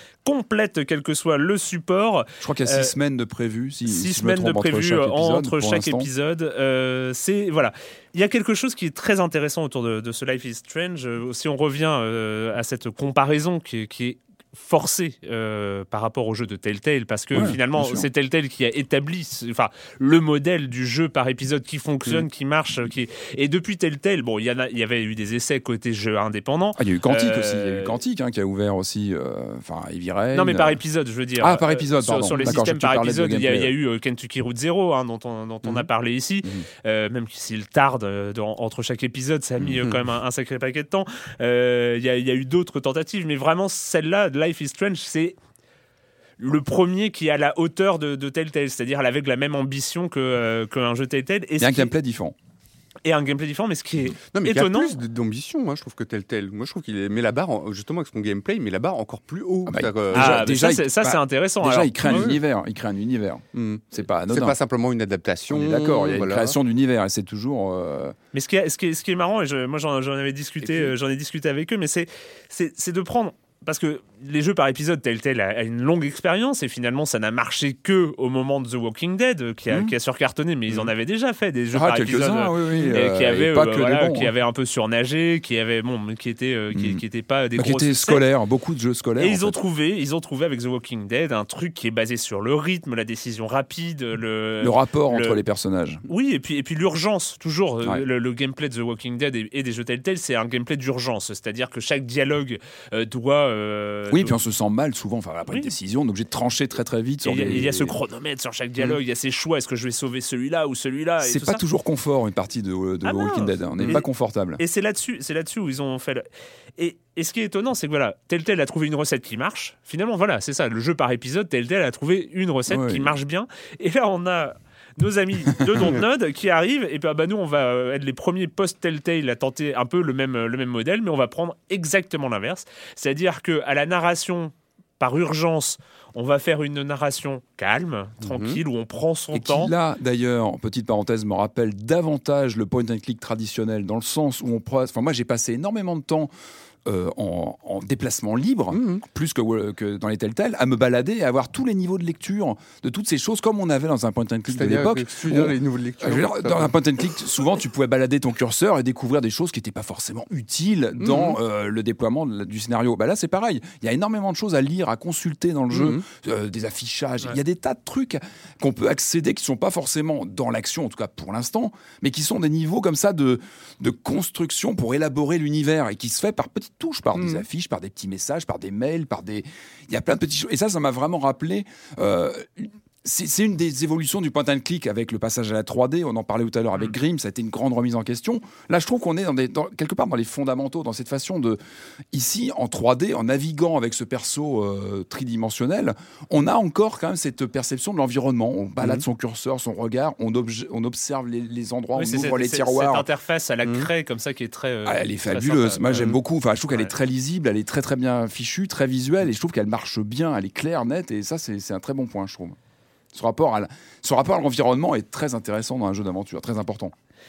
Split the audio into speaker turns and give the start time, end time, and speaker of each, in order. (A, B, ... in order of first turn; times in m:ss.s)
0:00.2-0:02.9 A
0:02.4-0:06.1 B
0:03.9-0:28.0 A
0:17.3-0:18.1 B
0:26.8-0:30.8 B
0:30.3-0:45.4 A
0:31.4-0:33.7 B
0:39.6-0:40.0 C
0:46.4-0:51.9 A
0:51.6-0:52.4 B
0:53.0-0:54.9 A
0:54.3-1:00.5 C
0:59.7-1:04.6 B
1:00.1-1:02.3 A
1:02.1-1:02.4 C
1:03.5-1:06.6 C
1:05.5-1:08.2 B
1:08.3-1:28.2 A
1:21.7-1:24.3 B
1:26.7-1:27.0 B
1:27.6-1:29.6 B
1:29.2-1:35.4 A
1:34.6-1:36.0 B
1:36.1-1:44.4 A
1:44.1-1:48.0 B
1:47.2-1:51.6 A
1:51.2-1:54.6 B
1:53.0-1:54.0 A
1:54.6-1:56.3 A
1:56.8-2:19.7 A
2:02.7-2:03.1 B
2:18.2-2:18.6 C
2:19.3-2:26.3 B
2:26.9-3:11.6 B
2:28.7-2:29.0 C
2:34.5-2:36.8 C
2:41.0-2:41.4 C
2:45.7-2:46.0 C
2:57.2-2:57.4 C
3:12.1-3:23.0 B
3:22.0-3:26.1 A
3:23.6-3:23.9 C
3:24.8-3:32.6 B
3:33.1-3:36.9 B